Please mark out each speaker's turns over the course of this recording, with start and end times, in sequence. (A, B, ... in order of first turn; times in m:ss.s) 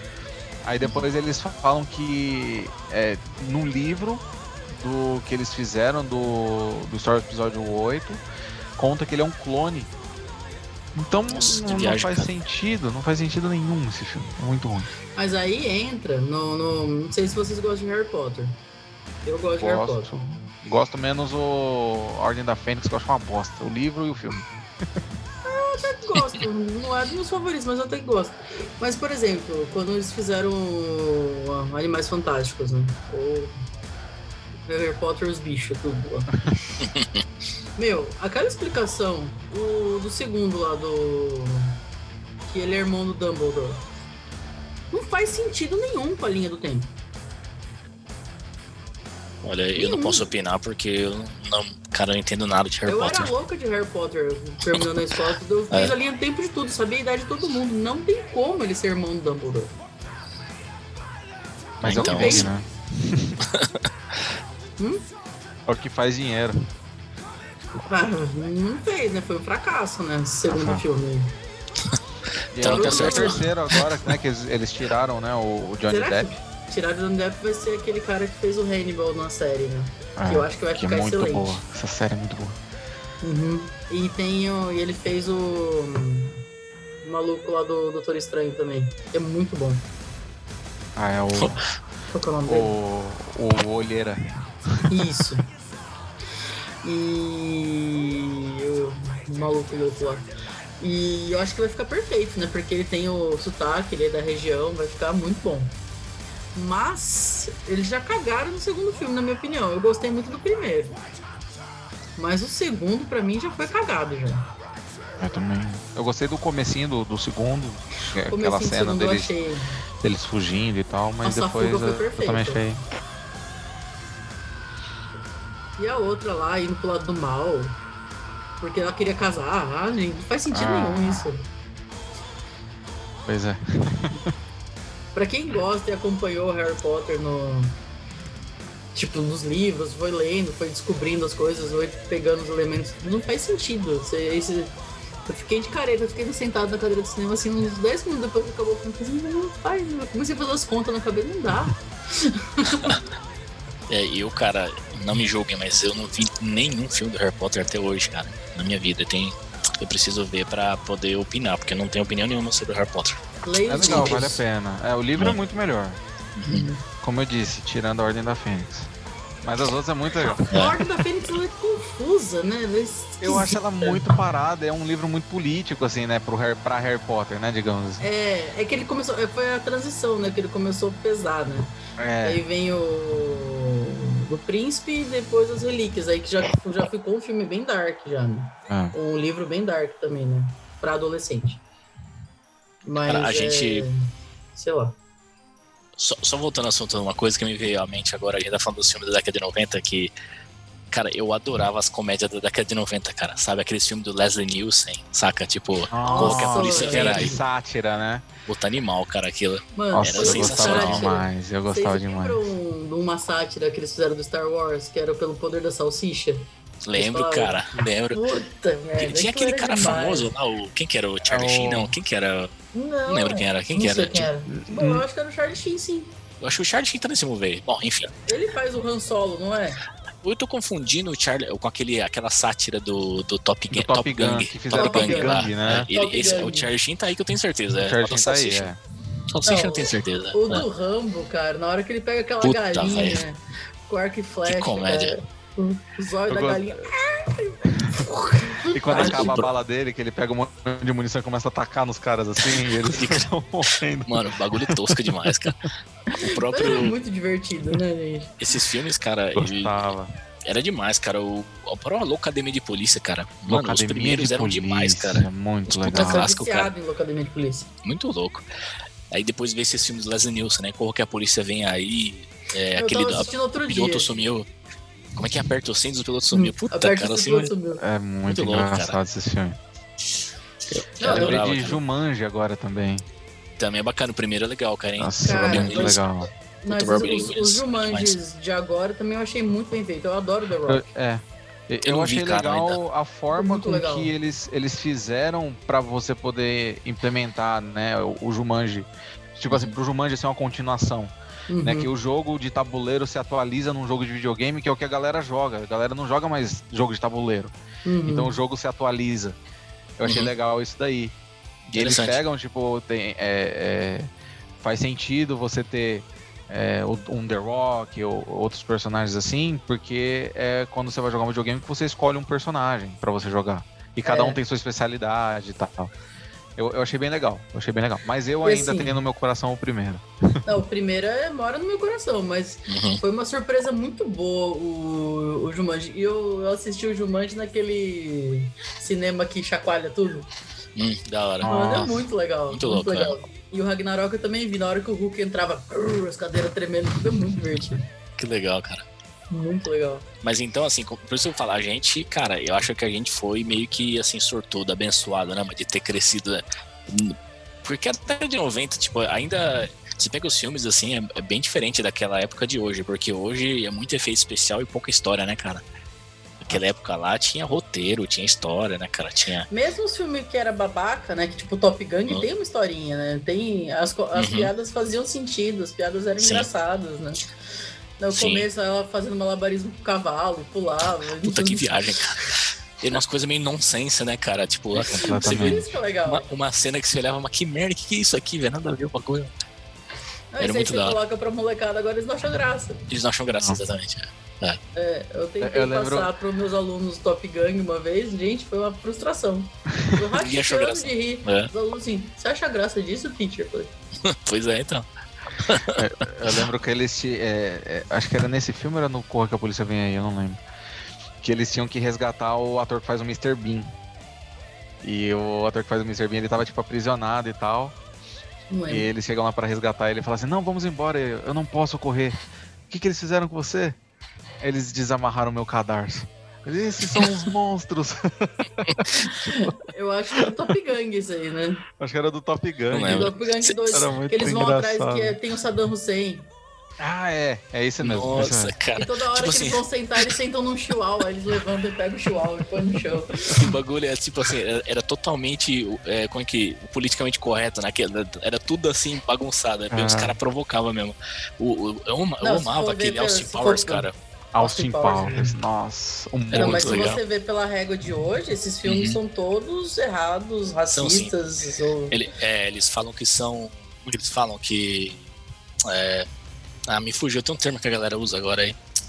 0:00.6-0:08.2 A
0:08.8-0:09.9 A
0:11.0-0:14.9 A
0:11.3-0:12.3 B
0:15.2-0:18.6 C
0:19.2-0:20.1 C
0:19.6-0:24.5 A
0:25.4-0:33.5 C
0:34.7-0:36.4 C
0:36.8-0:37.2 B
0:37.8-0:41.8 C
0:42.4-0:43.8 C
0:44.9-0:46.9 C
0:49.4-0:53.3 B
0:49.8-0:50.3 C
0:52.9-0:59.7 C
1:01.8-1:03.4 A
1:01.8-1:02.5 B
1:01.9-1:02.5 C
1:03.4-1:03.9 B
1:05.7-1:06.6 A
1:07.8-1:11.3 C
1:10.5-1:10.8 A
1:12.5-1:16.3 A
1:12.6-1:14.1 B
1:12.6-1:13.4 C
1:15.9-1:21.6 C
1:20.2-1:22.6 A
1:23.2-1:26.4 C
1:27.0-1:29.8 C
1:31.0-1:31.6 A
1:31.4-1:31.6 B
1:32.1-1:32.7 C
1:32.4-1:35.0 A
1:34.9-1:35.4 C
1:36.8-1:40.3 C
1:40.8-1:45.7 C
1:46.6-1:51.0 C
1:52.2-1:54.5 C
1:55.2-1:59.3 A
1:58.1-1:59.7 C
2:00.0-2:02.8 A
2:01.2-2:02.6 C
2:05.8-2:07.8 C
2:08.6-2:11.4 C
2:10.5-2:11.3 A
2:13.2-2:14.3 A
2:15.1-2:17.8 C
2:19.0-2:24.7 C
2:25.3-2:33.0 C
2:33.9-2:43.2 B
2:43.4-2:44.4 C
2:43.7-2:46.0 A
2:43.9-2:44.2 B
2:46.4-2:46.7 B
2:46.4-2:46.8 C
2:47.0-2:48.9 A
2:49.4-2:50.7 A
2:50.3-2:54.1 C
2:50.5-2:50.8 B
2:53.2-2:58.0 A
2:58.0-3:11.6 C
3:02.0-3:02.4 A
3:08.7-3:09.0 A
3:12.8-3:15.0 C
3:13.0-3:13.9 B
3:16.0-3:20.1 B
3:20.9-3:27.4 B
3:25.9-3:28.2 A
3:26.0-3:27.4 C
3:28.4-3:31.1 B
3:29.7-3:40.3 C
3:29.9-3:32.4 A
3:36.8-3:38.2 B
3:39.0-3:42.5 B
3:41.2-3:42.0 A
3:42.7-3:46.1 C
3:43.1-3:44.3 B
3:44.5-3:45.0 A
3:46.4-3:48.1 B
3:48.3-3:49.8 C
3:50.2-3:58.7 B
3:53.7-3:55.9 A
3:54.7-3:56.7 C
3:57.7-3:58.8 A
3:59.3-4:00.6 B
3:59.4-4:09.4 C
4:02.4-4:03.2 B
4:04.4-4:05.2 B
4:06.3-4:06.9 A
4:08.7-4:15.5 A
4:08.9-4:09.5 B
4:12.5-4:13.3 B
4:14.0-4:17.0 B
4:16.1-4:18.3 C
4:18.4-4:19.9 B
4:19.4-4:20.1 A
4:20.4-4:26.7 B
4:23.5-4:26.3 A
4:25.9-4:27.7 C
4:27.8-4:28.4 B
4:29.1-4:34.5 B
4:32.8-4:34.1 C
4:35.2-4:37.5 B
4:36.3-4:37.8 C
4:37.8-4:39.6 A
4:38.3-4:39.0 B
4:40.7-4:41.8 B
4:41.0-4:41.4 C
4:41.0-4:43.0 A
4:43.6-4:46.0 B
4:45.0-4:46.3 A
4:45.2-4:46.0 C
4:46.6-4:50.9 C
4:46.7-4:48.2 B
4:50.6-5:07.5 A
4:51.8-4:52.8 B
4:53.3-4:54.1 C
4:59.5-4:59.7 B
5:01.5-5:01.9 C
5:07.9-5:08.3 C
5:08.0-5:09.4 A
5:10.0-5:11.1 A
5:10.0-5:10.3 B
5:11.7-5:14.1 A
5:11.8-5:12.2 B
5:14.6-5:25.9 A
5:24.0-5:24.4 C
5:26.6-5:30.5 A
5:28.4-5:29.0 C
5:30.4-5:40.3 C
5:32.7-5:33.0 B
5:40.8-5:41.6 B
5:41.4-5:42.0 A
5:41.4-5:47.8 C
5:42.5-5:43.2 B
5:48.2-5:48.9 B
5:49.3-5:50.0 C
5:50.2-6:05.6 B
6:06.4-6:09.5 B
6:09.5-6:17.2 C
6:14.1-6:14.5 B
6:16.2-6:16.5 B
6:18.0-6:21.7 C
6:18.1-6:18.5 B
6:21.2-6:29.3 B
6:24.8-6:26.3 C
6:24.8-6:25.7 A
6:30.3-6:32.8 C
6:30.4-6:31.0 B
6:32.9-6:34.6 B
6:34.7-6:43.7 C
6:35.4-6:36.1 A
6:40.1-6:41.5 B
6:44.0-6:44.9 B
6:45.4-6:46.3 B
6:45.7-6:50.4 A
6:51.2-6:53.7 A
6:54.8-6:57.8 A
6:58.5-6:58.9 C
6:58.7-7:02.2 A
7:02.7-7:03.8 A
7:04.4-7:09.6 A
7:08.6-7:09.2 B
7:09.3-7:11.6 C
7:11.8-7:13.1 A
7:12.7-7:13.8 B
7:12.9-7:16.3 C
7:13.7-7:15.2 A
7:16.8-7:18.5 A
7:17.8-7:20.1 B
7:18.8-7:23.5 C
7:23.3-7:34.0 B
7:29.7-7:30.2 A
7:32.2-7:33.9 C
7:34.3-7:36.9 A
7:34.4-7:35.3 C
7:36.3-7:37.0 B
7:36.3-7:42.0 C
7:38.6-7:39.0 B
7:40.7-7:41.1 B
7:41.9-7:45.0 B
7:45.6-7:46.1 B
7:46.7-7:48.6 B